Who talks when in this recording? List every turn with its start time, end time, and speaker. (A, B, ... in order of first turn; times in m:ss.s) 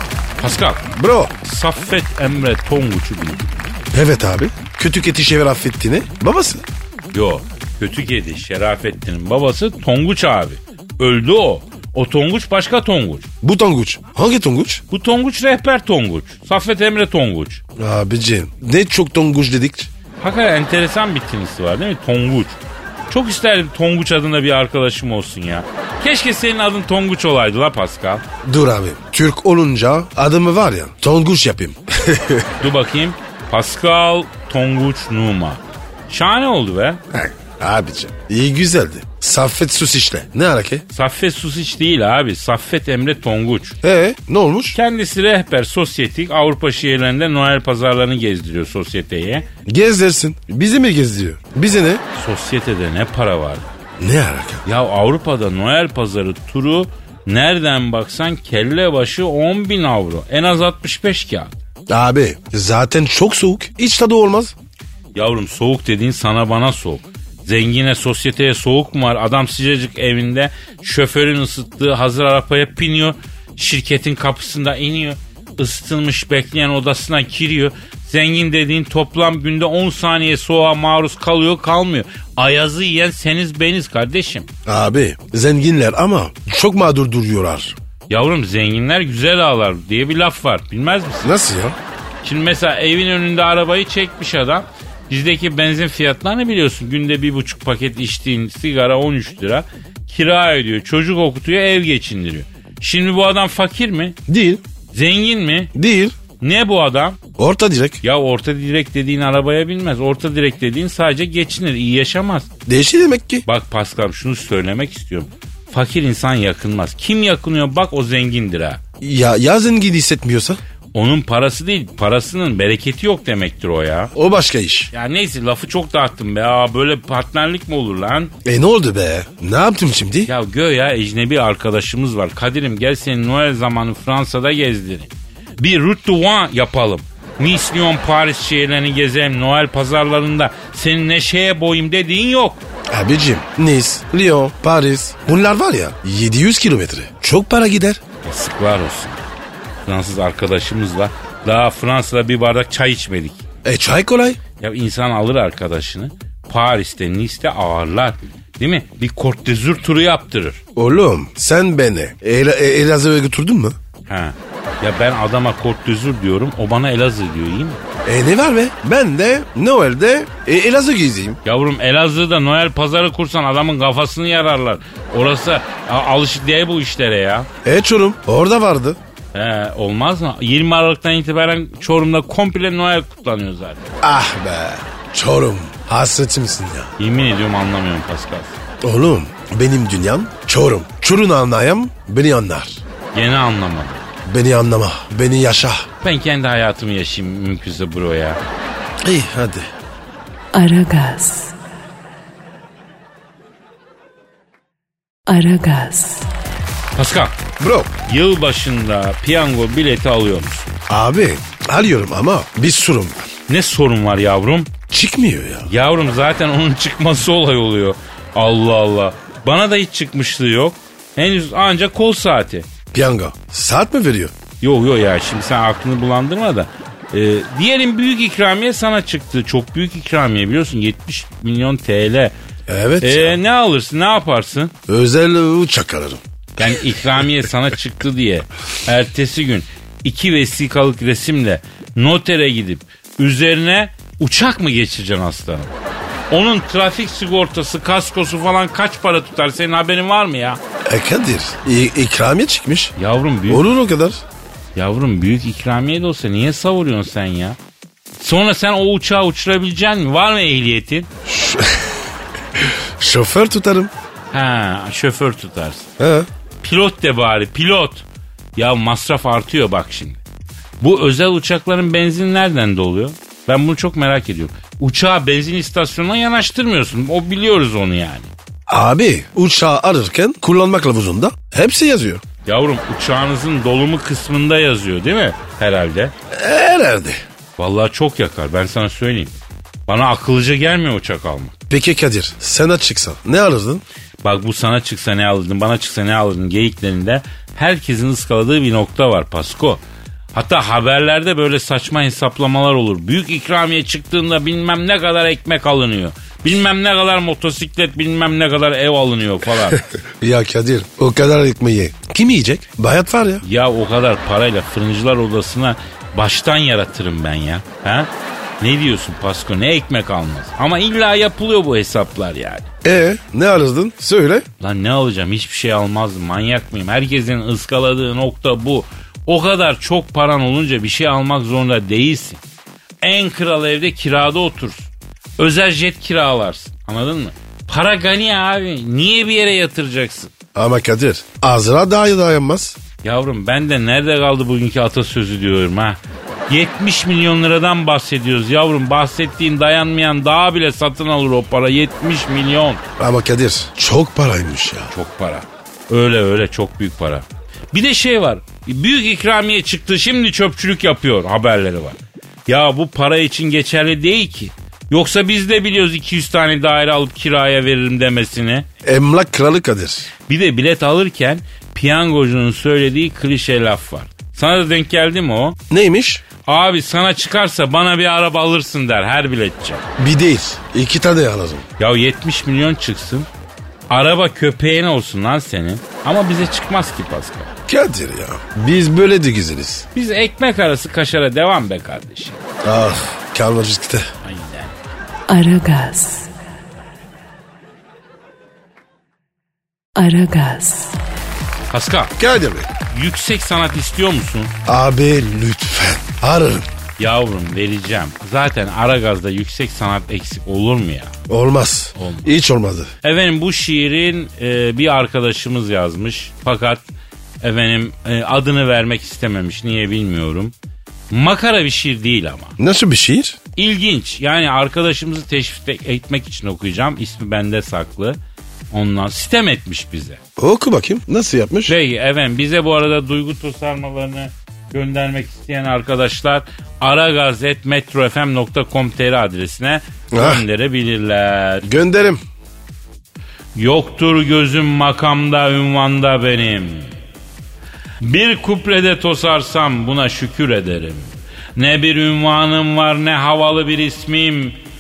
0:00.4-0:00.9 A
0:00.9-0:01.4 B
0:01.4-0:03.5 A
0:03.9-0:06.6 B
0:07.1-0:13.3 A
0:13.4-0:14.8 B
0:14.9-0:17.6 A
0:17.8-0:19.9 B
0:20.2-0:28.2 A
0:28.4-0:32.6 B
0:32.6-0:37.0 A
0:37.1-0:40.8 B
0:40.9-0:43.8 A
0:43.8-0:44.8 B
0:44.7-0:49.5 A
0:49.7-0:52.0 B
0:52.1-0:53.7 A
0:54.0-0:54.6 B
0:54.7-1:01.6 A
1:01.9-1:04.6 B
1:05.2-1:24.5 A
1:24.7-1:27.8 B
1:28.1-1:31.3 A
1:31.2-1:31.8 B
1:32.2-1:44.2 A
1:44.3-1:44.6 B
1:44.9-1:45.7 A
1:45.8-1:46.2 B
1:46.4-1:47.2 A
1:47.4-1:48.0 B
1:48.0-1:52.5 A
1:52.7-1:53.4 B
1:53.5-1:58.8 A
1:59.0-2:00.6 B
2:00.9-2:04.1 A
2:04.2-2:04.9 B
2:04.9-2:08.3 A
2:08.4-2:10.3 B
2:10.3-2:22.6 A
2:22.9-2:28.0 B
2:28.2-2:29.2 A
2:29.9-2:33.4 A
2:33.6-2:34.4 B
2:34.6-2:40.6 A
2:40.8-2:43.8 B
2:44.1-2:47.9 A
2:48.1-2:51.4 B
2:51.4-2:57.5 A
2:57.6-2:59.0 B
2:59.3-3:03.9 A
3:04.0-3:06.9 B
3:07.0-3:08.6 A
3:08.8-3:12.8 B
3:13.1-3:14.1 A
3:14.2-3:15.9 B
3:16.0-3:18.4 A
3:19.0-3:19.7 B
3:20.5-3:21.6 C
3:25.3-3:26.3 C
3:27.0-3:27.4 A
3:27.6-3:27.9 B
3:28.1-3:30.7 A
3:30.9-3:33.3 B
3:33.5-3:34.7 A
3:34.9-3:35.7 B
3:35.7-3:42.7 A
3:42.9-3:44.3 B
3:44.6-3:52.4 A
3:52.7-3:53.4 B
3:53.0-3:54.7 A
3:54.9-3:56.8 B
3:56.6-4:05.7 A
4:06.3-4:10.6 A
4:10.9-4:12.9 B
4:13.0-4:13.7 A
4:13.5-4:14.2 B
4:14.8-4:17.6 A
4:18.2-4:21.1 A
4:21.3-4:23.9 B
4:24.3-4:25.9 A
4:26.0-4:26.3 B
4:26.6-4:30.2 A
4:30.8-4:38.3 A
4:38.7-4:42.2 B
4:42.5-4:46.1 A
4:46.3-4:47.2 B
4:47.6-4:49.3 A
4:49.9-4:51.6 A
4:51.7-4:53.8 B
4:54.2-4:59.8 A
5:00.3-5:09.8 A
5:10.0-5:13.4 B
5:13.4-5:22.7 A
5:22.8-5:24.5 B
5:24.6-5:32.4 A
5:33.0-5:40.3 A
5:40.6-5:42.8 B
5:43.0-5:52.8 A
5:53.0-5:54.9 B
5:54.9-6:08.7 A
6:08.8-6:10.1 B
6:10.3-6:15.6 A
6:15.7-6:16.2 B
6:16.4-6:19.8 A
6:20.0-6:21.7 B
6:21.8-6:23.3 A
6:23.9-6:27.5 A
6:27.7-6:29.9 B
6:29.9-6:32.4 A
6:32.6-6:34.1 B
6:34.2-6:34.8 A
6:35.3-6:36.3 C
6:40.0-6:41.0 C
6:41.7-6:42.2 A
6:42.2-6:42.7 B
6:42.9-6:44.5 A
6:44.7-6:46.7 B
6:47.0-6:51.2 A
6:51.3-6:52.9 B
6:52.0-6:52.3 A
6:53.0-6:56.8 A
6:57.4-7:00.5 A
7:01.1-7:02.6 A
7:02.6-7:03.4 B
7:03.6-7:08.2 A
7:08.7-7:10.2 A
7:10.4-7:11.8 B
7:11.7-7:21.7 A
7:20.1-7:20.4 B
7:21.7-7:22.2 B
7:23.6-7:26.9 A
7:28.0-7:34.6 A